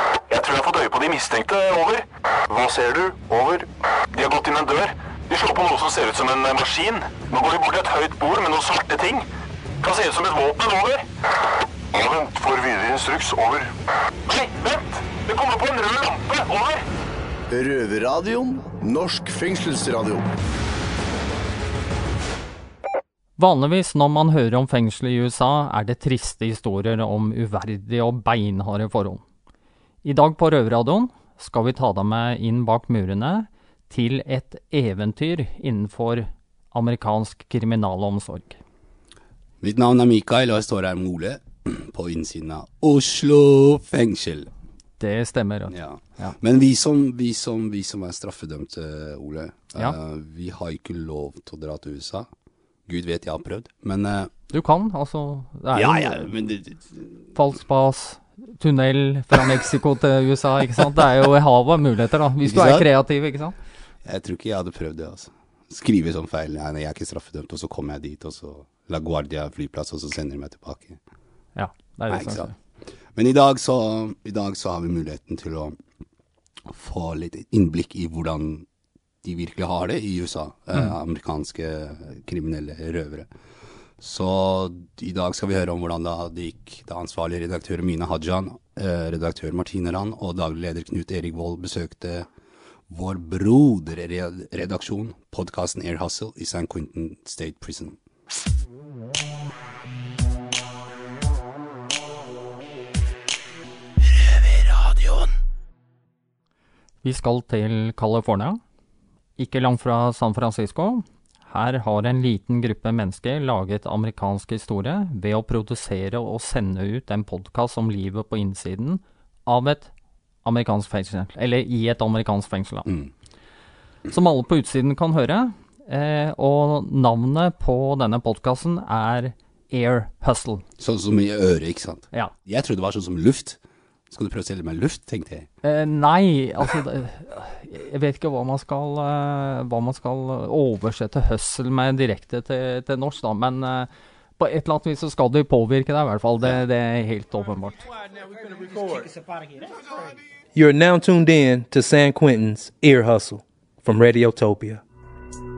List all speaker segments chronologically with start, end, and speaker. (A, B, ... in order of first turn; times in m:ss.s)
0:00.3-0:09.2 A
0:09.8-0:11.0 A
0:11.9-0:13.7 A
0:14.3-0:16.8 A
0:17.5-0:20.2 B
0:23.4-0:29.2 C
0:30.0-0:38.6 C
0:39.6-0:44.5 D
0:45.0-0:46.4 C
0:45.7-0:52.3 D
0:52.8-0:54.3 D
0:54.5-0:56.3 C
0:55.7-0:57.3 D
0:57.3-1:03.5 C
1:02.4-1:02.9 D
1:04.0-1:11.0 D
1:11.5-1:12.5 C
1:12.1-1:12.5 D
1:13.1-1:15.8 D
1:16.7-1:18.6 D
1:19.2-1:23.3 D
1:24.0-1:32.2 D
1:32.9-1:38.0 D
1:47.0-1:48.6 C
1:49.4-1:59.9 C
2:00.4-2:02.9 C
2:02.8-2:03.1 D
2:04.1-2:10.6 C
2:10.8-2:13.6 D
2:14.1-2:15.5 D
2:15.6-2:27.9 C
2:28.0-2:29.1 E
2:30.5-2:34.8 E